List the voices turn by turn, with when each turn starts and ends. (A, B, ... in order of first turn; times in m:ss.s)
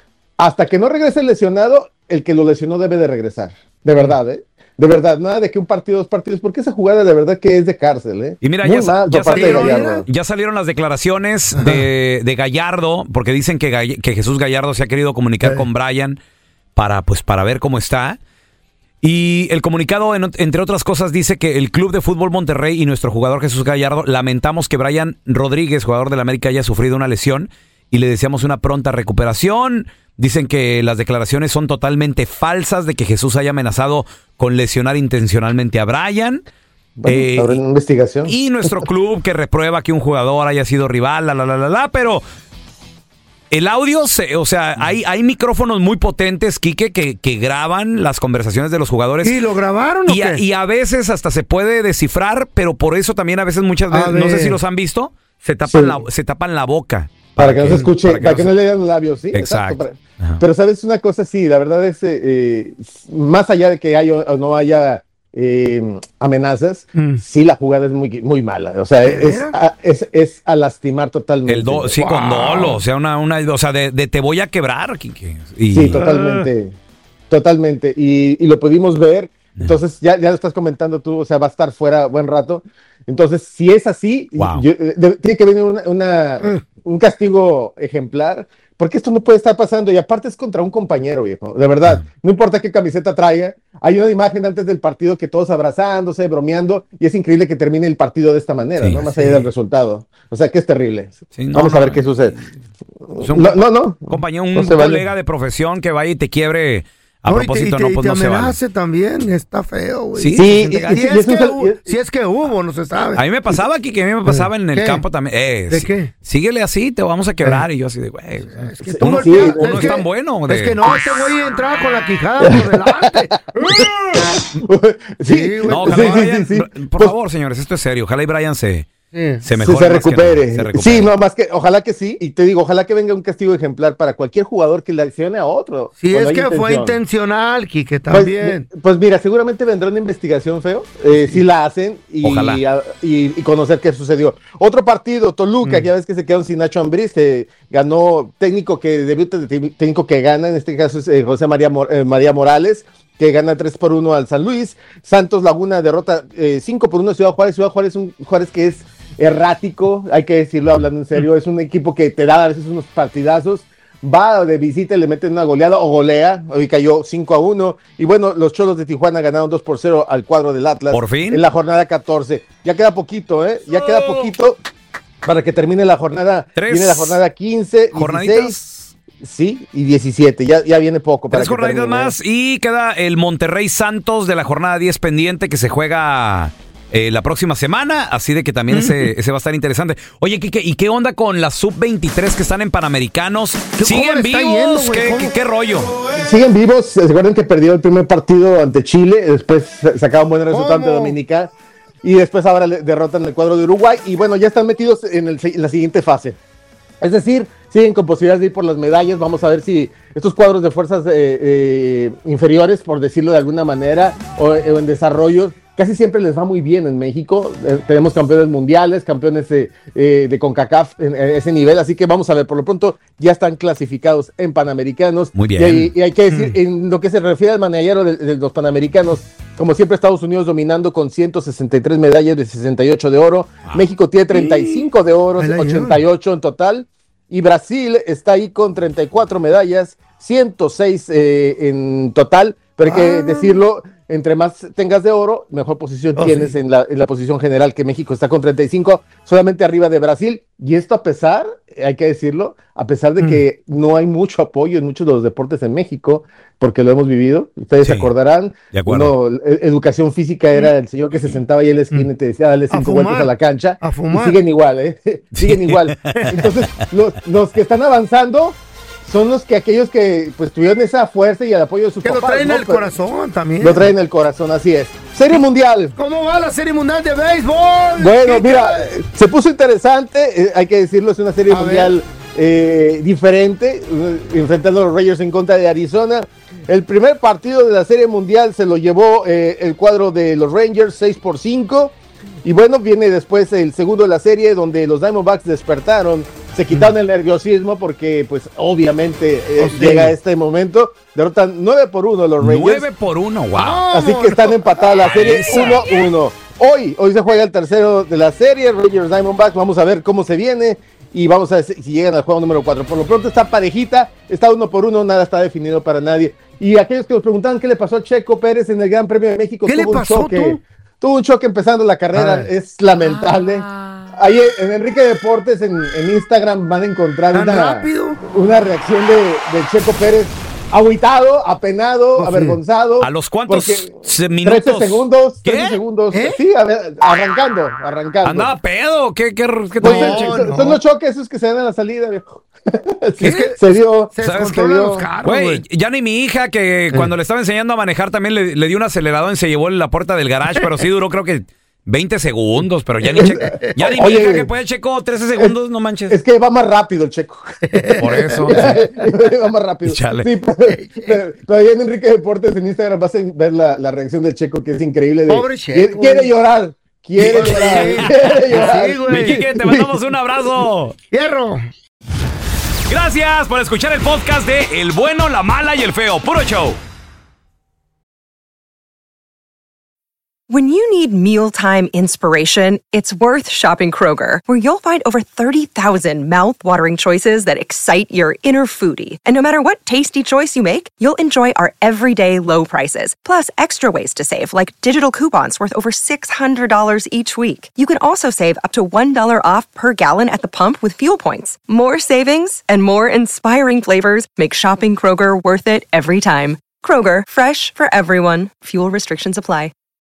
0:00.4-0:10.1 A
0:08.4-0:16.2 B
0:09.3-0:10.0 C
0:11.5-0:11.9 C
0:16.8-0:18.2 B
0:19.0-0:36.4 B
0:37.0-0:38.3 A
0:37.1-0:37.6 B
0:38.3-0:42.2 B
0:43.5-0:49.4 B
0:49.2-0:50.4 C
0:50.1-0:58.5 B
0:53.9-0:54.6 C
0:55.6-0:56.0 A
0:57.4-1:12.2 A
0:59.3-1:00.4 B
1:07.0-1:07.2 C
1:09.0-1:09.6 C
1:11.5-1:16.0 B
1:12.0-1:12.8 C
1:15.7-1:16.8 A
1:16.0-1:16.3 C
1:17.3-1:42.4 A
1:24.4-1:24.6 B
1:38.8-1:39.5 B
1:41.3-1:42.4 B
1:43.1-1:45.0 A
1:43.2-1:48.6 B
1:47.3-1:53.2 C
1:50.1-1:51.1 B
1:50.3-1:51.8 A
1:53.2-2:01.3 B
1:54.3-1:55.0 C
1:55.7-1:56.1 C
1:58.5-2:03.4 C
1:59.0-2:00.0 A
2:02.5-2:02.9 A
2:03.5-2:07.1 A
2:05.3-2:06.3 C
2:05.7-2:08.9 B
2:09.1-2:09.4 C
2:09.4-2:11.1 B
2:09.5-2:17.0 A
2:16.0-2:18.6 C
2:18.1-2:54.6 A
2:22.2-2:22.6 B
2:25.6-2:25.9 C
2:50.9-2:51.4 B
2:53.7-2:54.3 B
2:55.2-2:58.6 A
2:56.6-2:57.2 B
2:57.9-2:58.9 B
2:59.2-3:02.1 A
3:01.3-3:15.9 B
3:08.7-3:09.1 C
3:13.8-3:15.3 C
3:16.2-3:21.5 A
3:20.5-3:21.2 C
3:22.0-3:26.4 A
3:27.0-4:32.9 A
3:45.4-3:45.9 B
3:46.3-3:46.6 C
3:54.3-3:56.0 C
4:02.8-4:03.6 C
4:06.2-4:06.6 C
4:17.8-4:18.1 B
4:18.7-4:19.1 B
4:22.7-4:24.4 C
4:25.4-4:26.5 B
4:32.0-4:33.9 C
4:33.6-4:36.0 A
4:36.0-4:38.9 C
4:38.0-5:02.9 A
4:41.5-4:41.9 C
4:59.6-5:00.1 C
5:02.4-5:03.8 B
5:03.6-5:05.9 C
5:03.9-5:38.5 A
5:05.0-5:05.8 B
5:19.6-5:20.6 C
5:22.1-5:22.5 C
5:27.3-5:28.2 C
5:32.2-5:32.6 C
5:33.0-5:35.8 B
5:36.1-5:36.4 C
5:38.2-5:40.4 B
5:39.8-5:40.8 C
5:39.8-5:45.1 A
5:43.2-5:43.5 B
5:43.2-5:45.6 C
5:44.2-5:44.6 B
5:45.2-5:56.2 B
5:53.2-5:54.5 A
5:56.1-6:09.9 A
5:57.7-5:58.9 C
5:58.0-5:58.8 B
5:59.8-6:00.3 B
6:00.6-6:01.2 C
6:05.3-6:06.3 C
6:07.2-6:09.4 C
6:07.4-6:11.0 B
6:11.1-6:11.7 C
6:12.9-6:16.8 B
6:20.5-6:49.7 D